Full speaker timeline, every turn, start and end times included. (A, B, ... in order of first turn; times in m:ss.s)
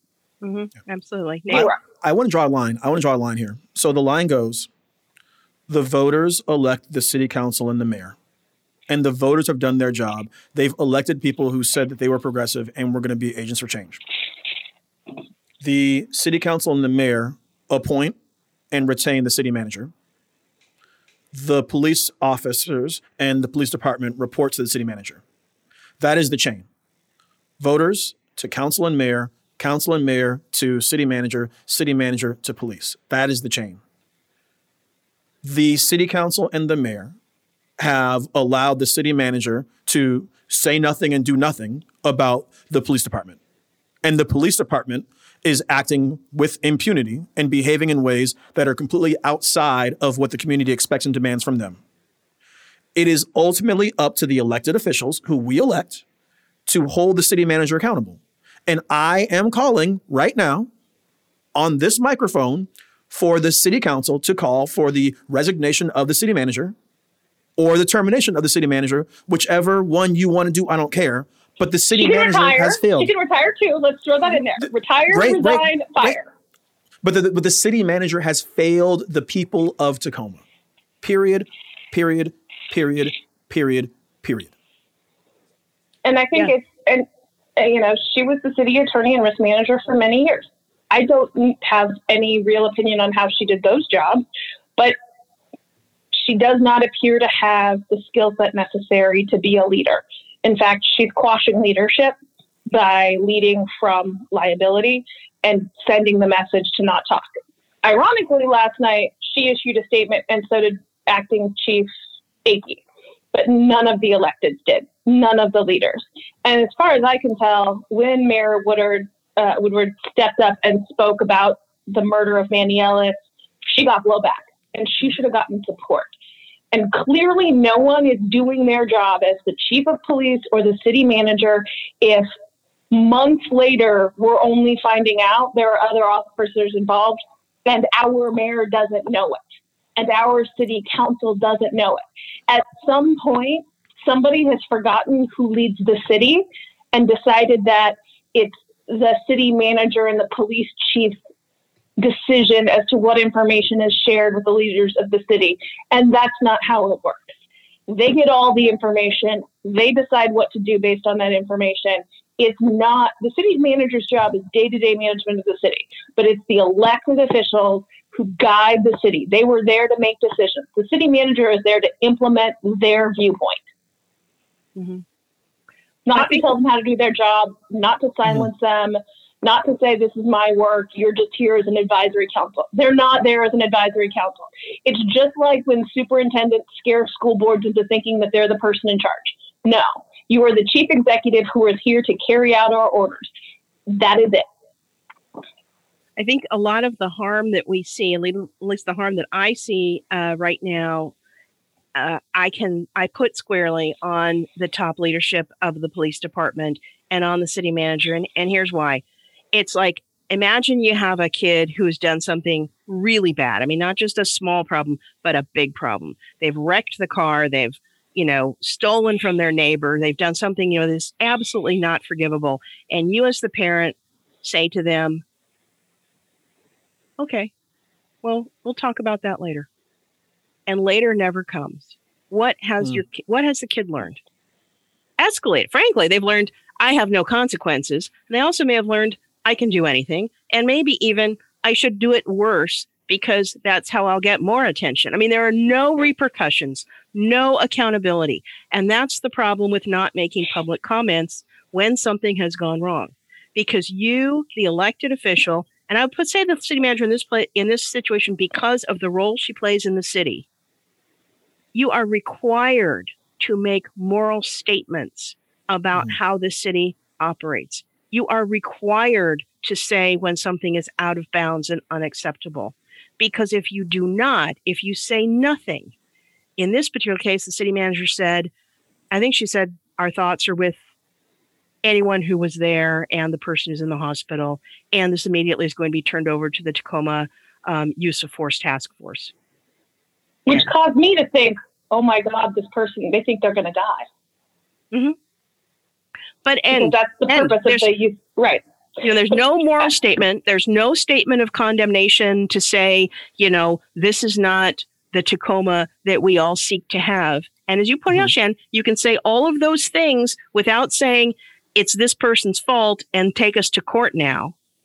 0:00.4-0:01.6 A
0:01.5-0:01.8 B
0:01.5-0:04.7 C
0:05.7-0:08.2 C
0:08.9-0:14.0 C
0:15.6-0:18.2 C
0:18.7-0:19.9 C
0:21.3-0:25.2 C
0:26.0-0:26.7 C
0:27.6-0:33.8 C
0:35.4-0:37.2 C
0:37.8-0:43.4 C
0:44.0-0:51.8 C
0:53.0-0:56.0 C
0:56.7-1:00.7 C
1:01.6-1:06.7 C
1:07.6-1:13.1 C
1:12.0-1:16.3 B
1:14.6-1:16.2 C
1:17.0-1:20.4 C
1:21.0-1:24.5 C
1:26.0-1:27.1 B
1:27.6-1:34.2 B
1:36.1-1:42.2 B
1:42.7-1:47.3 B
1:47.8-1:51.9 B
1:52.4-1:52.8 B
1:53.3-2:06.1 B
2:06.7-2:12.3 B
2:12.9-2:19.4 B
2:20.0-2:31.2 B
2:32.0-2:37.3 B
2:37.9-2:53.6 B
2:54.8-2:55.0 A
2:56.1-3:13.3 B
2:56.1-2:56.4 A
3:13.9-3:14.4 B
3:16.2-3:21.1 A
3:22.0-3:45.2 A
3:47.2-3:47.5 A
3:48.2-3:49.7 A
3:50.7-3:54.2 A
3:55.2-4:20.5 A
4:21.7-4:35.9 A
4:36.6-4:38.5 A
4:39.1-4:40.8 A
4:41.8-4:49.3 A
4:50.5-4:54.1 B
4:56.4-4:57.9 A
4:56.7-4:58.6 B
4:59.0-5:14.5 A